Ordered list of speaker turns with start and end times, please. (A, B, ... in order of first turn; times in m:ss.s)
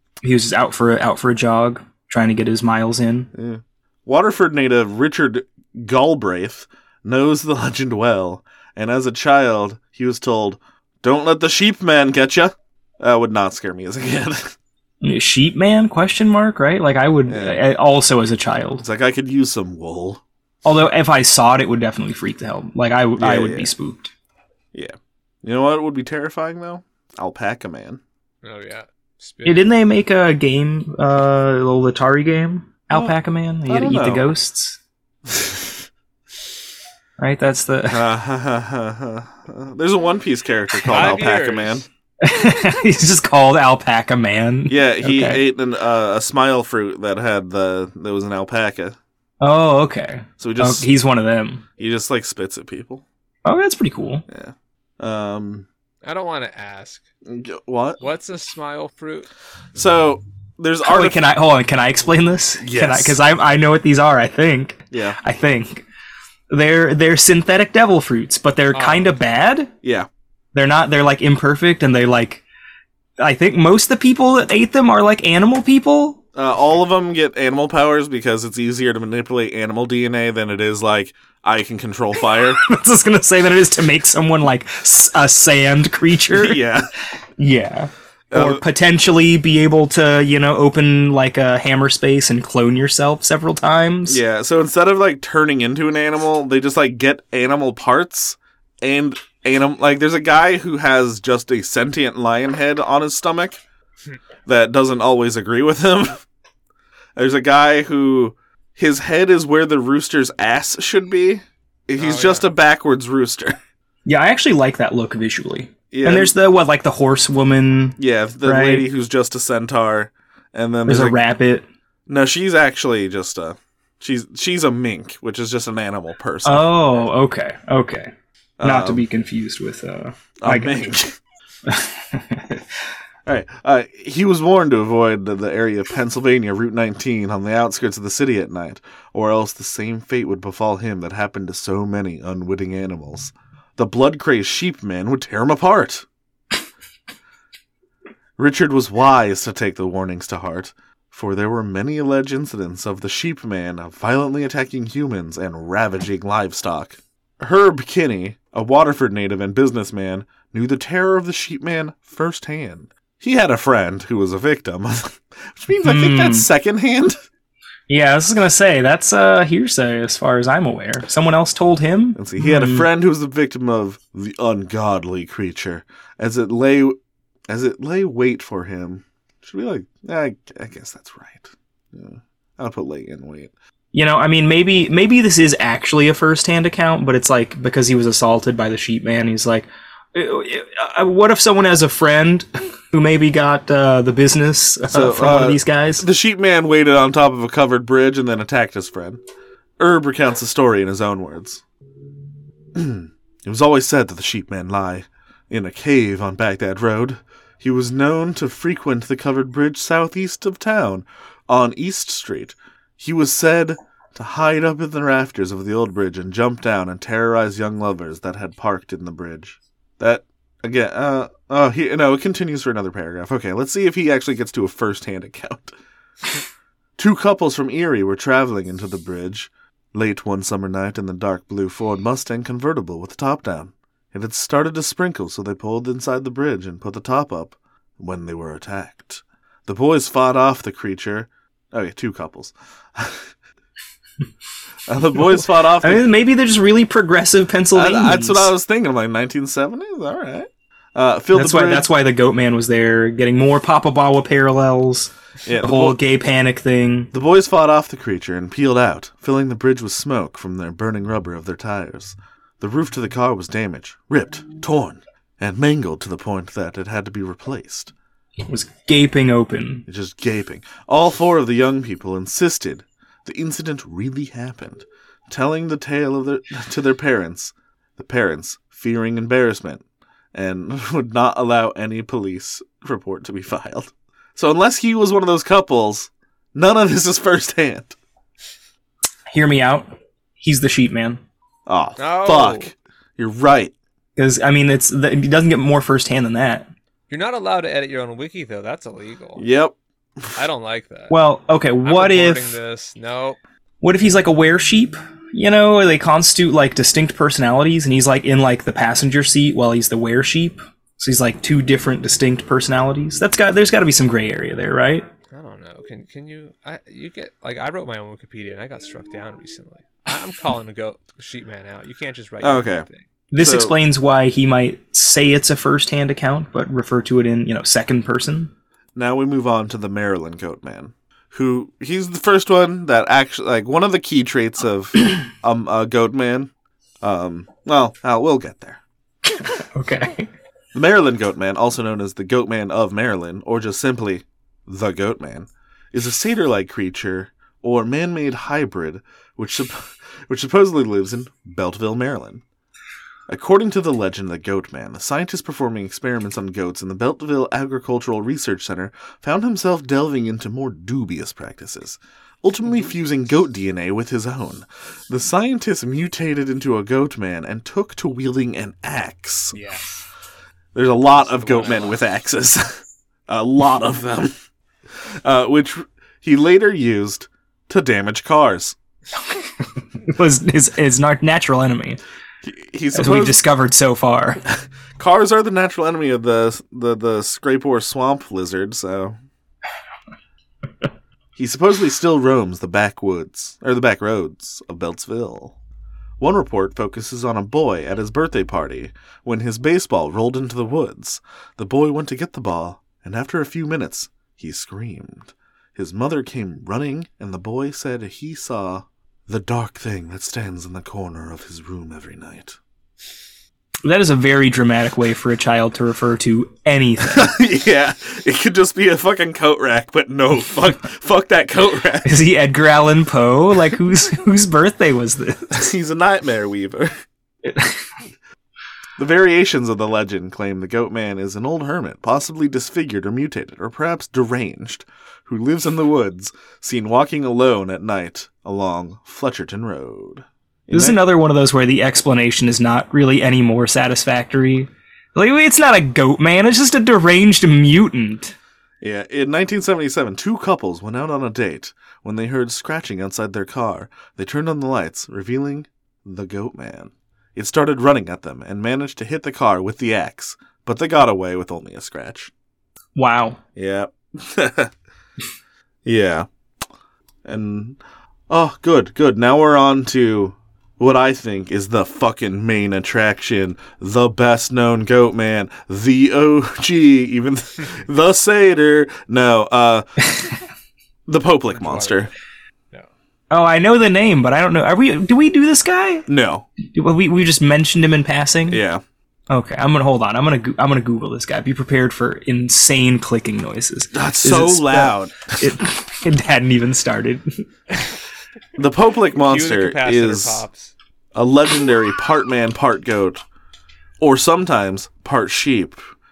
0:00.2-0:03.3 A
0:03.3-0:14.5 B
0:15.0-0:18.8 A
0:17.3-0:17.6 B
0:18.8-0:20.2 B
0:20.6-0:24.1 A
0:23.2-0:23.7 B
0:24.7-0:28.0 B
0:28.4-0:29.8 C
0:29.4-0:34.8 A
0:33.7-0:34.3 B
0:35.3-0:35.7 B
0:37.2-0:38.1 A
0:37.9-0:41.8 B
0:40.9-0:41.9 C
0:42.2-0:45.4 A
0:44.7-0:49.0 B
0:49.4-0:51.6 A
0:50.4-0:50.9 B
0:51.8-0:53.0 B
0:53.4-0:54.2 A
0:54.3-0:55.7 B
0:56.0-0:57.0 C
0:57.3-0:58.0 B
0:58.0-0:59.3 C
0:59.8-1:01.2 B
1:00.8-1:05.8 A
1:02.6-1:03.2 B
1:04.9-1:05.2 B
1:06.5-1:09.7 A
1:08.7-1:09.1 C
1:09.8-1:10.1 B
1:10.5-1:12.4 A
1:13.2-1:16.2 A
1:16.4-1:22.6 B
1:22.3-1:26.6 A
1:26.3-1:26.9 B
1:27.4-1:34.2 A
1:28.3-1:28.6 B
1:34.1-1:43.6 B
1:44.5-1:46.2 B
1:47.2-1:53.6 B
1:52.0-1:52.5 C
1:54.0-1:58.9 A
1:55.9-1:56.3 B
1:58.0-2:01.2 B
2:00.9-2:01.7 A
2:02.1-2:06.8 B
2:06.4-2:10.8 A
2:08.6-2:09.0 B
2:10.4-2:11.1 B
2:11.7-2:12.7 A
2:13.3-2:26.0 B
2:28.4-2:47.2 B
2:45.8-2:46.5 A
2:47.9-2:52.9 A
2:52.2-2:57.0 B
2:57.5-3:03.5 B
3:03.9-3:16.1 A
3:14.9-3:19.2 B
3:19.8-3:21.6 B
3:22.8-3:45.7 B
3:47.0-4:03.3 B
4:04.9-4:06.1 B
4:05.8-4:08.5 A
4:07.7-4:11.9 B
4:11.3-4:17.1 A
4:15.4-4:16.0 B
4:17.1-4:27.9 B
4:28.5-4:29.8 A
4:29.9-4:39.8 B
4:40.3-4:48.0 B
4:49.3-4:51.2 A
4:51.7-4:53.7 B
4:52.0-4:52.7 C
4:54.2-4:56.7 A
4:57.1-4:59.4 C
4:59.4-5:00.3 B
5:00.4-5:01.2 C
5:01.1-5:02.5 A
5:01.8-5:03.4 C
5:03.8-5:15.1 A
5:15.3-5:23.0 C
5:22.4-5:23.8 B
5:23.3-5:28.5 A
5:29.0-5:36.5 B
5:37.0-5:38.8 B
5:39.3-5:40.3 A
5:40.7-5:52.4 B
5:53.3-6:09.6 B
6:09.5-6:10.1 C
6:10.7-6:14.3 B
6:11.1-6:12.0 C
6:15.2-6:18.8 B
6:19.4-6:22.0 A
6:22.4-6:23.4 B
6:22.9-6:24.4 A
6:24.5-6:29.2 B
6:31.4-6:35.6 B
6:36.2-6:52.6 B
6:53.8-6:57.4 A
6:57.0-7:02.2 B
7:02.0-7:05.6 A
7:05.5-7:06.9 B
7:07.4-7:07.8 A
7:09.0-7:21.0 B
7:20.7-7:28.4 A
7:28.8-7:42.3 B
7:43.0-7:43.4 A
7:43.6-7:44.7 B
7:45.8-7:46.3 B
7:47.2-7:47.8 B
7:48.3-8:00.0 B
8:01.1-8:02.1 B
8:01.5-8:02.1 C
8:03.3-8:06.1 A
8:06.1-8:06.5 B
8:06.7-8:08.6 A
8:08.5-8:08.8 B
8:09.3-8:17.4 A
8:13.9-8:15.5 B
8:18.6-8:20.4 B
8:19.2-8:20.7 C
8:21.2-8:23.2 B
8:24.0-8:25.8 B